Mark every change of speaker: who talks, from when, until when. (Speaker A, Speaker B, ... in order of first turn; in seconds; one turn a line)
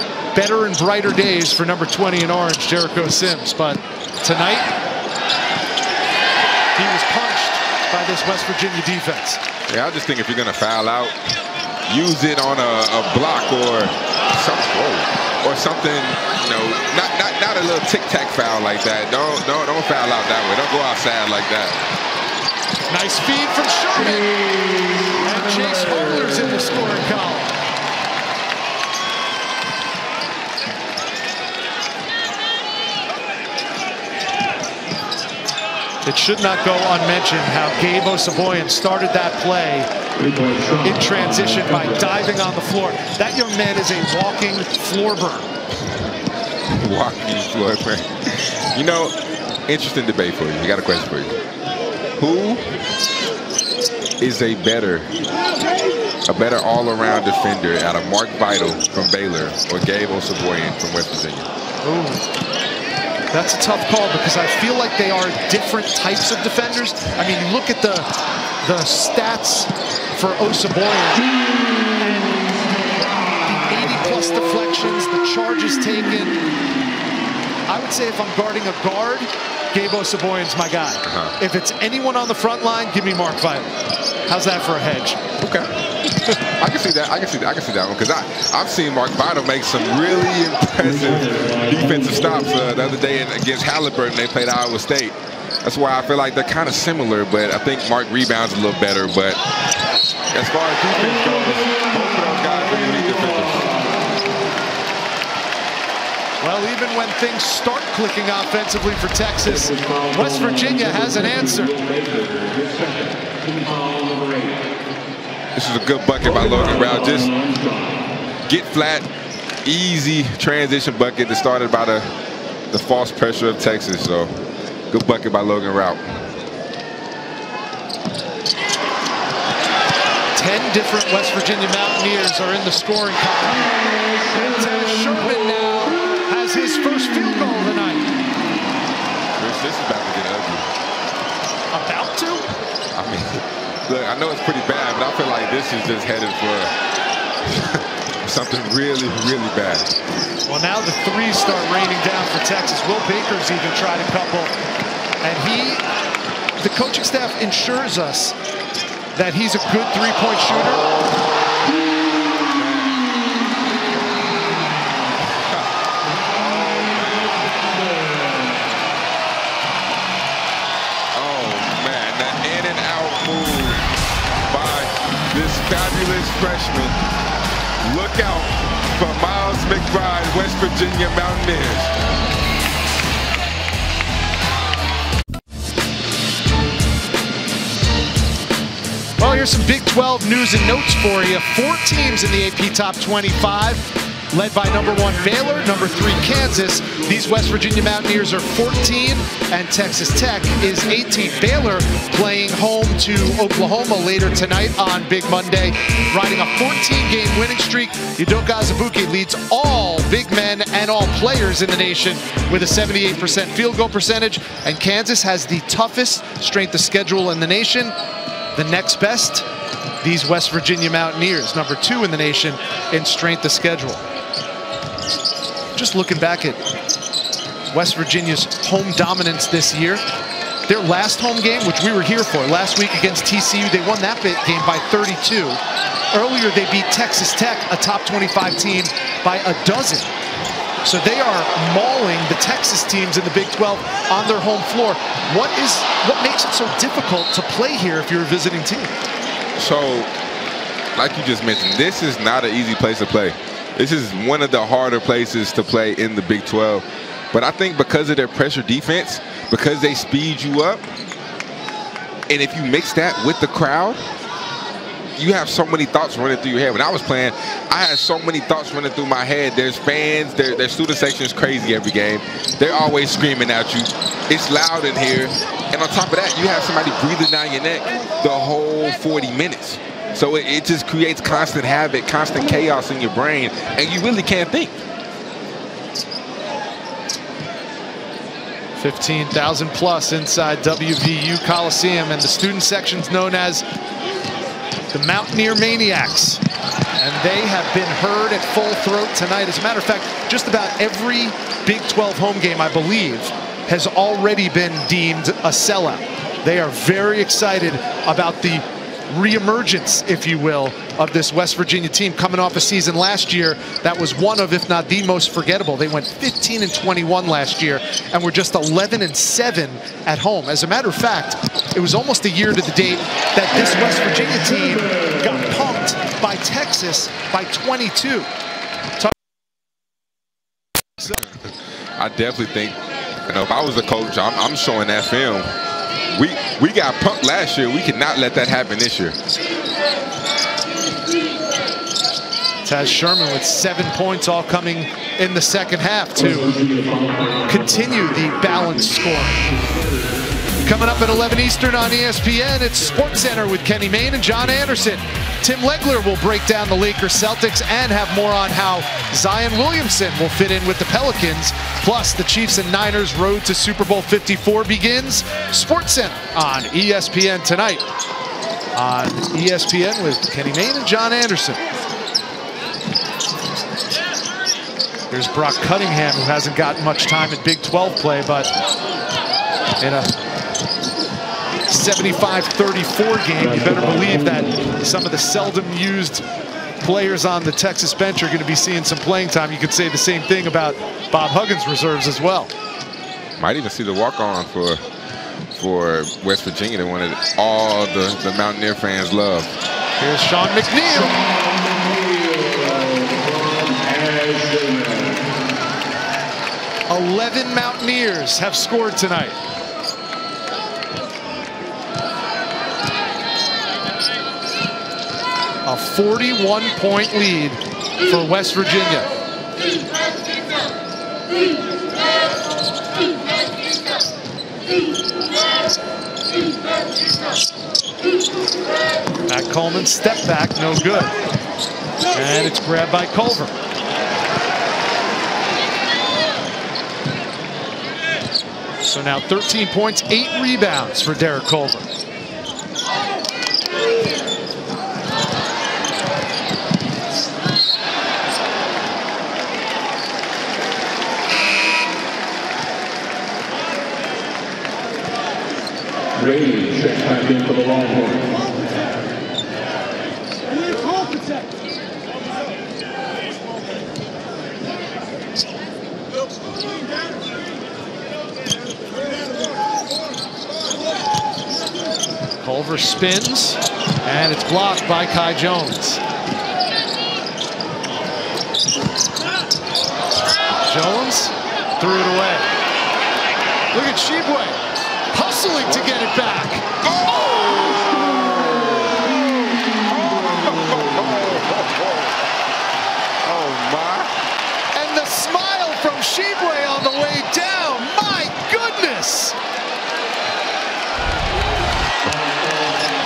Speaker A: 0.3-4.7
Speaker A: 6.8-9.4
Speaker B: 9.7-11.2
Speaker B: 11.9-21.8
Speaker A: 22.9-24.3
Speaker A: 25.2-27.5
Speaker A: 36.0-39.9
Speaker C: 40.1-42.2
Speaker A: 40.8-45.5
Speaker B: 46.7-49.1
Speaker B: 49.7-51.4
Speaker B: 52.2-52.8
Speaker B: 54.2-55.1
Speaker B: 56.3-61.5
Speaker A: 61.8-62.2
Speaker A: 63.3-68.1
Speaker A: 68.6-71.3
Speaker A: 72.0-72.7
Speaker A: 73.5-76.4
Speaker A: 77.7-83.7
Speaker B: 81.0-81.3
Speaker A: 84.3-85.2
Speaker B: 85.4-99.4
Speaker C: 90.8-92.6
Speaker B: 100.3-103.7
Speaker C: 101.0-103.8
Speaker A: 106.4-111.7
Speaker C: 109.4-114.6
Speaker B: 115.5-117.3
Speaker C: 116.2-118.1
Speaker B: 118.5-119.1
Speaker B: 119.6-122.1
Speaker B: 122.7-126.2
Speaker A: 130.3-138.1
Speaker B: 139.4-140.7
Speaker A: 141.7-142.5
Speaker B: 142.9-146.7
Speaker B: 147.4-149.9
Speaker A: 150.5-154.5
Speaker A: 155.2-155.8
Speaker A: 156.6-158.3
Speaker A: 159.1-160.8
Speaker B: 160.6-163.0
Speaker B: 165.2-165.7
Speaker C: 166.2-168.5
Speaker B: 166.3-167.4
Speaker B: 171.1-173.8
Speaker B: 174.5-177.0
Speaker B: 177.8-181.9
Speaker A: 189.2-217.9
Speaker A: 218.5-219.5
Speaker A: 220.0-224.0
Speaker A: 225.7-226.6
Speaker A: 227.7-230.0
Speaker A: 230.7-235.6
Speaker A: 236.1-240.1
Speaker A: 240.8-248.9
Speaker B: 249.6-250.1
Speaker B: 250.9-260.9
Speaker B: 262.3-264.0
Speaker B: 265.1-284.8
Speaker A: 288.8-293.6
Speaker A: 294.9-296.4
Speaker A: 297.0-328.3
Speaker B: 331.1-335.5
Speaker B: 336.1-339.2
Speaker A: 342.6-346.6
Speaker C: 346.2-348.0
Speaker A: 347.5-349.5
Speaker C: 349.4-350.1
Speaker A: 350.6-367.9
Speaker A: 368.7-371.6
Speaker A: 375.1-378.5
Speaker A: 379.8-380.1
Speaker A: 381.7-386.2
Speaker C: 383.4-384.6
Speaker A: 386.8-392.5
Speaker B: 393.4-394.8
Speaker B: 395.5-399.5
Speaker A: 400.0-401.2
Speaker C: 401.1-405.2
Speaker A: 406.9-409.4
Speaker A: 415.6-419.1
Speaker A: 429.3-431.1
Speaker A: 432.1-433.5
Speaker A: 438.8-441.9
Speaker C: 456.1-458.3
Speaker A: 472.4-476.0
Speaker A: 480.6-482.5
Speaker A: 483.7-484.6
Speaker A: 485.1-486.7
Speaker B: 485.6-485.9
Speaker B: 486.8-492.2
Speaker B: 493.2-494.1
Speaker A: 494.7-499.4
Speaker C: 502.0-502.7